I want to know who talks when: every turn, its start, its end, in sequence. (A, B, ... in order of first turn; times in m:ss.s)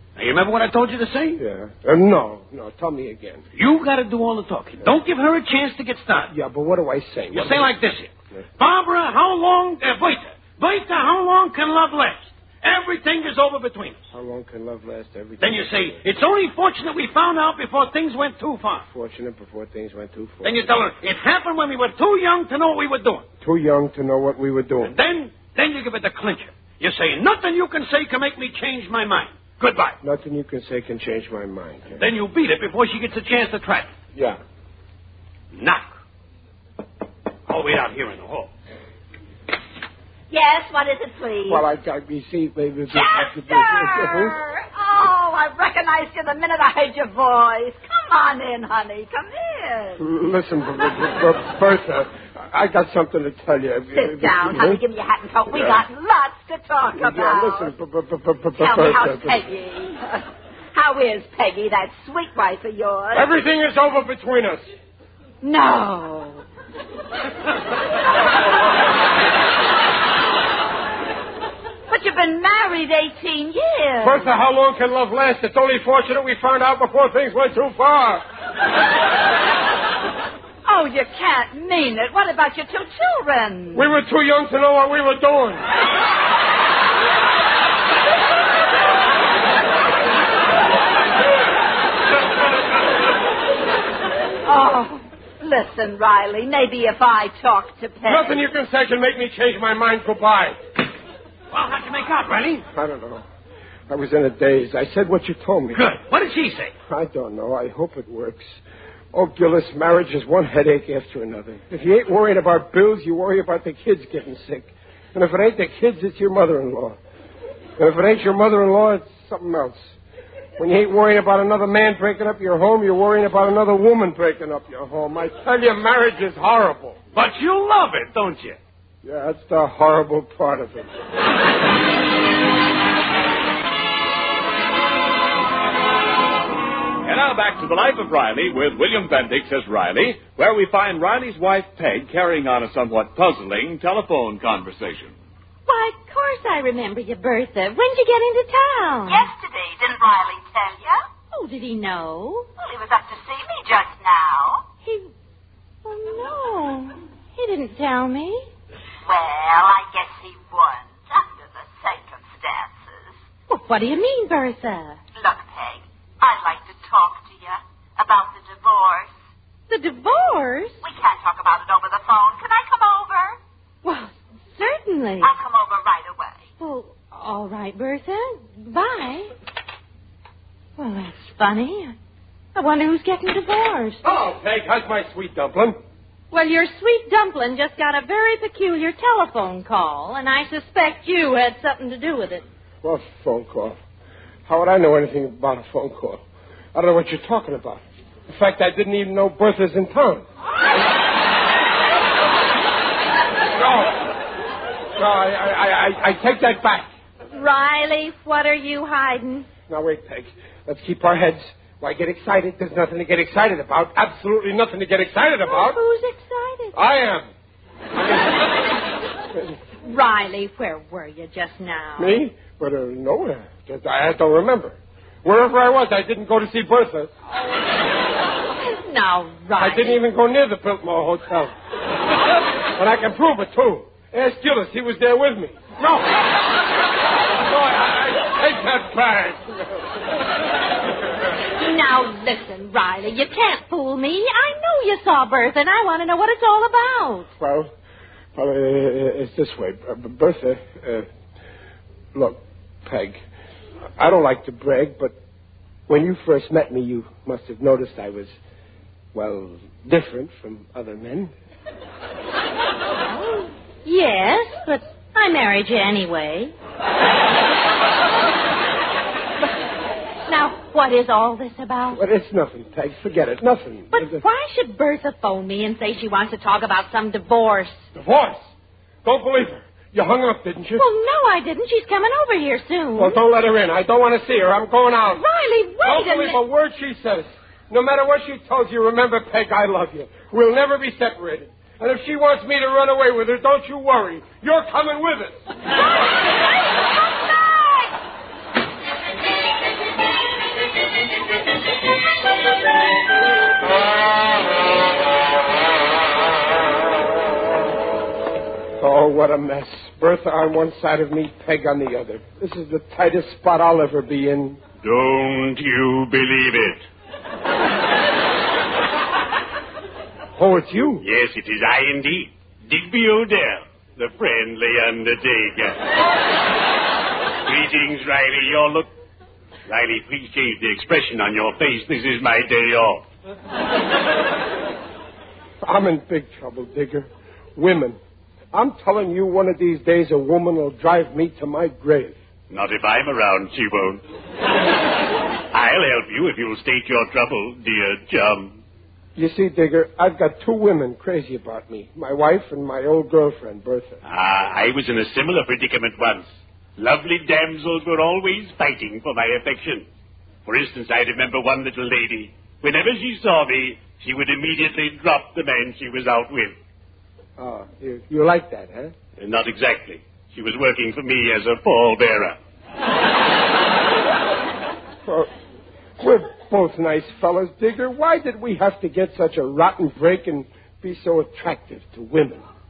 0:00.2-0:01.4 A
0:01.4-0:03.4 B
0:03.6-0:06.3 A
0:06.3-0:07.7 B
0:07.3-0:14.0 A
0:14.1-0:16.0 B
0:15.4-0:18.8 A
0:18.9-0:20.7 B
0:20.4-0:23.2 A
0:23.4-0:25.0 B
0:24.8-0:30.0 A
0:30.0-0:32.0 B
0:32.0-0:33.9 A
0:35.5-0:35.8 A
0:37.5-0:38.5 A
0:40.3-0:41.6 C
0:41.5-0:44.4 B
0:42.9-0:50.0 C
0:50.0-0:54.8 B
0:54.0-0:57.7 C
0:55.5-0:55.8 B
0:57.0-0:59.4 B
0:58.6-1:03.3 C
1:03.1-1:04.7 B
1:05.4-1:06.4 C
1:11.9-1:14.3 C
1:14.0-1:18.2 B
1:20.7-1:23.9 C
1:23.7-1:25.6 B
1:34.5-1:38.4 C
1:38.0-1:40.6 B
1:41.5-1:42.6 A
1:42.7-1:43.2 B
1:43.9-1:45.8 B
1:45.7-1:46.7 A
1:46.9-1:48.6 B
1:49.1-1:57.0 B
1:57.8-2:00.0 B
2:00.6-2:07.0 B
2:07.1-2:08.6 A
2:09.0-2:10.9 B
2:17.0-2:25.2 D
2:25.7-2:29.3 E
2:29.1-2:31.0 F
2:31.3-2:32.5 E
2:32.6-2:34.6 F
2:34.8-2:35.1 E
2:35.8-2:38.5 E
2:39.1-2:43.1 F
2:43.5-2:45.0 E
2:45.2-2:49.1 F
2:49.7-2:50.8 E
2:50.8-2:53.4 F
2:53.8-2:55.3 E
2:55.2-2:56.4 F
2:56.6-2:59.3 E
3:00.8-3:02.0 E
3:02.6-3:04.0 E
3:04.0-3:05.8 B
3:06.3-3:12.4 E
3:12.8-3:13.8 B
3:14.5-3:16.2 B
3:16.7-3:20.2 B
3:23.5-3:24.1 B
3:25.0-3:26.9 B
3:27.3-3:29.5 E
3:29.7-3:35.8 B
3:35.4-3:36.8 E
3:36.7-3:37.3 B
3:38.0-3:38.4 B
3:39.3-3:39.6 B
3:39.8-3:42.2 E
3:42.0-3:47.1 B
3:48.6-3:50.0 E
3:49.6-3:51.5 B
3:52.8-3:56.2 B
3:57.4-4:00.0 B
4:01.6-4:07.3 E
4:07.4-4:07.7 B
4:08.4-4:11.1 B
4:12.1-4:13.2 B
4:14.0-4:15.2 B
4:15.9-4:18.4 B
4:19.1-4:21.3 B
4:23.1-4:26.5 E
4:30.3-4:32.0 E
4:31.9-4:34.2 B
4:33.9-4:37.9 E
4:38.0-4:38.5 B
4:39.0-4:40.8 B
4:40.8-4:43.2 E
4:43.0-4:45.2 B
4:45.2-4:46.4 E
4:45.8-4:55.4 B
5:08.8-5:14.6 B
5:14.8-5:16.8 G
5:20.4-5:21.0 B
5:21.0-5:25.8 G
5:27.5-5:28.9 G
5:29.7-5:33.0 G
5:35.6-5:38.0 B
5:38.5-5:42.2 B
5:42.5-5:44.0 G
5:45.5-5:48.6 G
5:49.2-5:54.0 B
5:54.0-5:59.9 G
6:00.5-6:06.6 G
6:07.4-6:08.9 B
6:09.2-6:12.4 G
6:15.0-6:15.3 B
6:16.0-6:22.4 B